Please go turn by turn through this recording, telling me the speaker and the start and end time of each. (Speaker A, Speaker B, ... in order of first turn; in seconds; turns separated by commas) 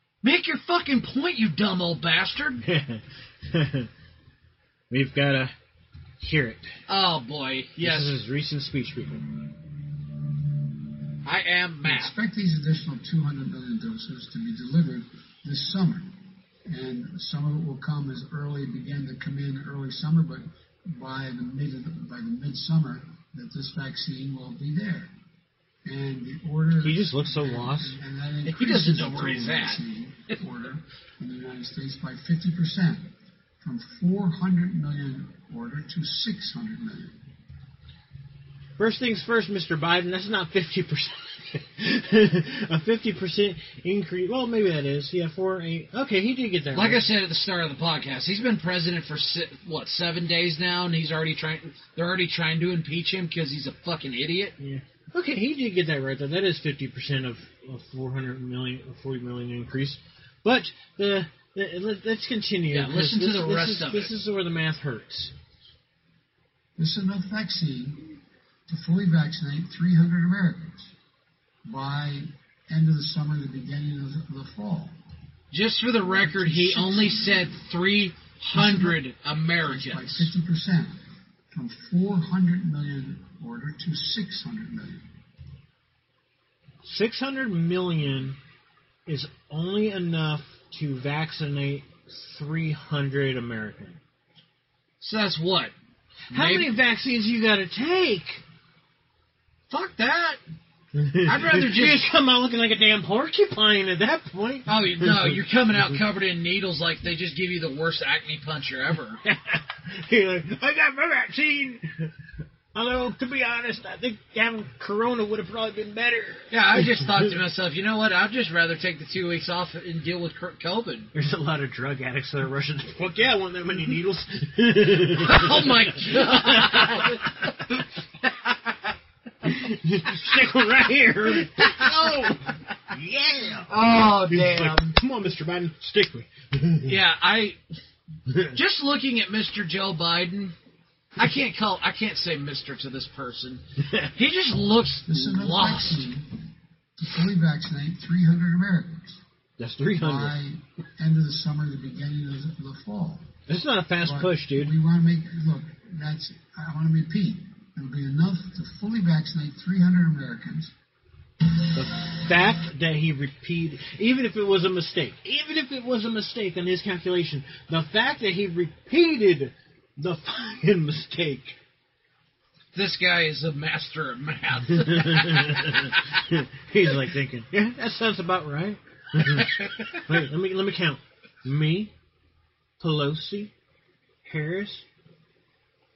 Speaker A: 0.2-2.6, Speaker B: 2.6-3.9, Speaker B: 4.9-5.5, Speaker B: 6.2-6.7, Speaker A: 6.9-8.1, Speaker B: 7.8-9.3, Speaker A: 11.2-12.1, Speaker C: 11.8-16.1, Speaker C: 16.6-25.1, Speaker C: 25.8-37.2, Speaker B: 26.8-28.0, Speaker A: 28.4-30.3, Speaker B: 38.8-47.1, Speaker A: 46.7-54.5, Speaker B: 54.6-65.3, Speaker A: 62.7-64.1, Speaker C: 66.8-70.9, Speaker C: 71.6-74.9, Speaker A: 75.5-80.3, Speaker C: 76.0-77.6, Speaker C: 78.5-79.0, Speaker C: 79.6-81.0, Speaker C: 81.5-85.1, Speaker B: 86.8-88.4, Speaker B: 89.0-94.0, Speaker A: 95.0-95.7, Speaker A: 96.3-96.7, Speaker B: 96.3-98.4, Speaker A: 99.7-100.4, Speaker B: 100.9-106.0, Speaker A: 101.2-102.0, Speaker A: 104.7-109.2, Speaker B: 109.2-112.1, Speaker B: 112.7-117.4, Speaker A: 116.5-121.1, Speaker B: 121.1-127.8, Speaker A: 125.1-127.7, Speaker B: 129.4-137.0, Speaker A: 131.4-132.4, Speaker A: 133.7-134.9, Speaker A: 136.8-137.6, Speaker B: 138.3-138.6, Speaker A: 138.5-140.5, Speaker A: 141.2-143.6, Speaker A: 144.1-146.1, Speaker C: 145.1-146.4, Speaker C: 147.0-149.2, Speaker B: 149.6-150.4, Speaker C: 149.9-153.3, Speaker B: 153.5-154.7, Speaker C: 154.0-160.7, Speaker B: 161.7-171.6, Speaker A: 172.7-176.3, Speaker B: 174.7-181.9, Speaker A: 179.3-180.0, Speaker B: 182.8-183.5, Speaker B: 184.2-184.8